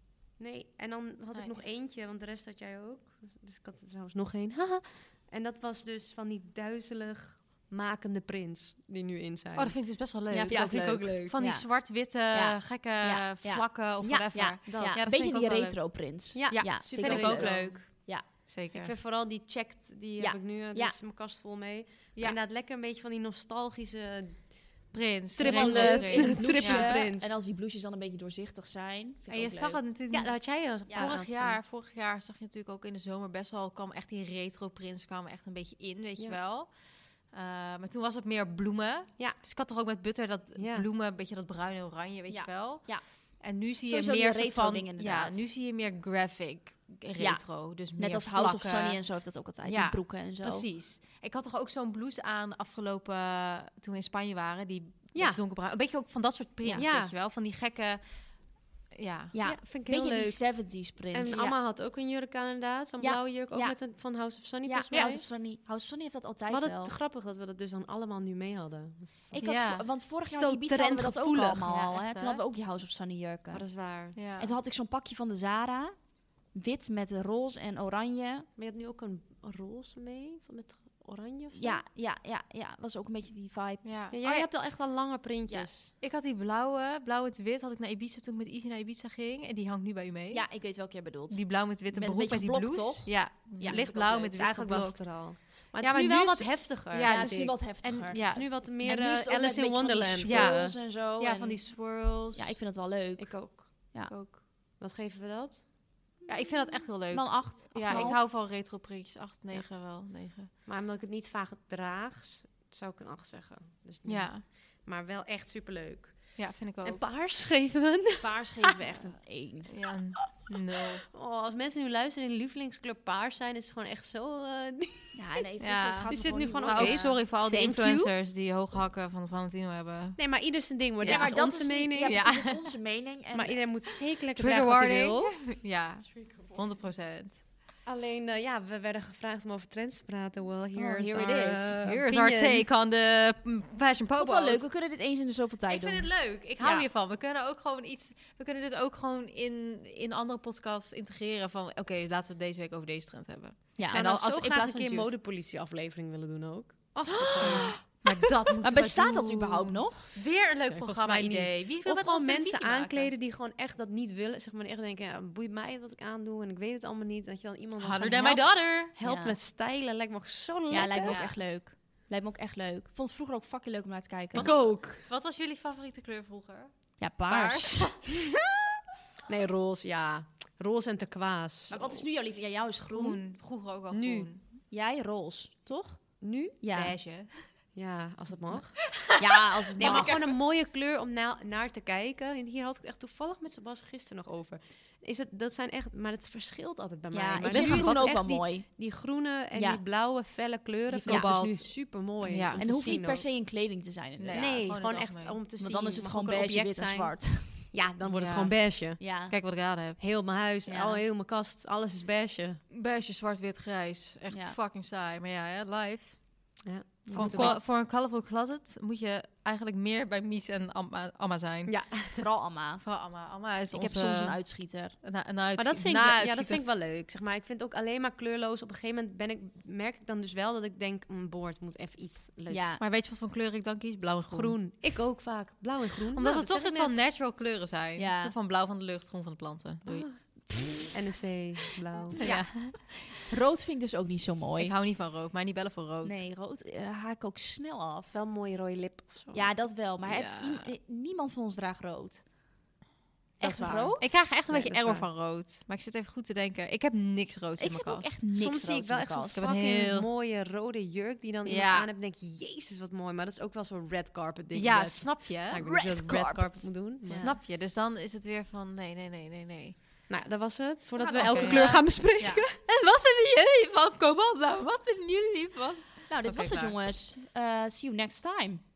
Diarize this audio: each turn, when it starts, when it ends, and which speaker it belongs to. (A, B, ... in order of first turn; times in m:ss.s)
0:00.4-0:11.3 A
0:09.6-0:18.9 B
0:10.5-0:10.7 C
0:11.3-0:18.3 C
0:14.0-0:15.0 A
0:16.3-0:17.8 A
0:18.7-0:27.4 A
0:20.2-0:21.0 C
0:24.9-0:27.0 B
0:25.4-0:29.8 C
0:29.3-0:59.3 B
0:30.1-0:31.6 A
0:30.9-0:31.1 C
0:40.6-0:40.9 A
0:42.3-0:45.5 C
0:47.2-0:50.7 C
0:55.1-0:55.4 A
0:56.8-0:57.1 A
0:59.3-1:01.6 C
0:59.4-1:05.2 A
1:03.0-1:03.8 C
1:04.6-1:06.9 C
1:06.5-1:09.4 A
1:09.3-1:13.7 C
1:09.4-1:09.8 B
1:10.2-1:12.1 A
1:11.9-1:12.4 B
1:13.5-1:14.2 A
1:14.1-1:14.5 B
1:14.4-1:18.5 C
1:18.6-1:21.8 A
1:21.5-1:23.8 C
1:23.8-1:24.5 B
1:24.1-1:25.9 A
1:25.5-1:25.7 C
1:26.0-1:30.6 B
1:30.3-1:33.8 C
1:31.3-1:38.5 B
1:33.6-1:40.8 A
1:37.0-1:44.1 C
1:40.2-1:42.6 B
1:43.2-1:43.7 A
1:44.1-1:44.4 B
1:44.8-1:45.7 A
1:46.2-1:48.2 C
1:46.3-1:50.5 B
1:47.8-1:48.2 A
1:50.6-1:59.1 A
1:54.0-1:54.4 B
1:56.4-1:57.1 B
1:58.2-1:59.7 C
1:59.7-2:01.0 B
2:00.4-2:05.4 A
2:05.1-2:07.2 C
2:05.6-2:10.2 B
2:06.1-2:08.1 A
2:10.2-2:12.5 A
2:11.0-2:13.7 C
2:11.0-2:11.4 B
2:12.1-2:12.7 B
2:13.3-2:15.6 A
2:14.3-2:17.4 B
2:16.1-2:16.6 A
2:17.8-2:22.7 A
2:20.8-2:21.8 C
2:21.2-2:24.7 B
2:24.1-2:26.9 C
2:25.7-2:35.2 B
2:33.9-2:37.8 A
2:36.9-2:43.1 B
2:37.1-2:37.8 C
2:38.6-2:40.2 C
2:40.7-2:51.3 A
2:47.8-2:48.9 B
2:49.0-2:49.4 C
2:50.7-2:54.6 C
2:51.0-2:51.4 B
2:54.3-2:55.0 A
2:54.3-2:58.1 B
2:57.0-2:58.0 C
2:59.3-3:02.0 A
3:01.7-3:03.2 C
3:02.9-3:04.4 B
3:03.9-3:04.3 A
3:04.7-3:07.0 C
3:06.2-3:06.6 A
3:06.7-3:07.6 B
3:07.7-3:09.0 A
3:09.1-3:10.2 C
3:09.8-3:10.2 B
3:09.8-3:23.2 A
3:17.1-3:18.8 C
3:17.5-3:18.1 B
3:19.5-3:19.8 C
3:20.9-3:21.6 C
3:21.0-3:22.6 B
3:22.6-3:24.8 C
3:24.2-3:25.4 B
3:24.3-3:29.0 A
3:25.6-3:27.7 C
3:28.1-3:30.0 B
3:29.0-3:29.4 C
3:30.0-3:32.6 A
3:30.6-3:31.0 C
3:32.7-3:36.6 B
3:34.3-3:34.6 C
3:36.6-3:37.7 A
3:37.0-3:37.6 C
3:37.1-3:41.9 B
3:41.7-3:42.2 A
3:42.2-3:42.9 C
3:42.8-3:46.8 B
3:43.7-3:45.0 C
3:45.5-3:52.8 A
3:52.5-3:52.8 C
3:52.8-3:54.7 B
3:54.3-3:57.0 A
3:56.1-4:00.2 B
3:58.0-3:58.3 C
3:59.8-4:02.3 A
4:00.2-4:01.0 C
4:02.1-4:04.7 C
4:02.2-4:02.9 B
4:04.6-4:06.2 B
4:06.0-4:08.1 C
4:08.1-4:09.5 A
4:09.3-4:12.2 C
4:10.0-4:10.7 B
4:13.4-4:15.1 A
4:13.4-4:14.1 C
4:14.0-4:18.2 B
4:17.6-4:19.4 C
4:18.3-4:27.3 A
4:19.3-4:20.1 B
4:21.4-4:21.9 B
4:24.5-4:25.7 B
4:25.6-4:27.4 C
4:27.0-4:30.1 B
4:30.1-4:32.4 A
4:31.0-4:36.8 B
4:31.2-4:32.4 C
4:36.1-4:38.6 C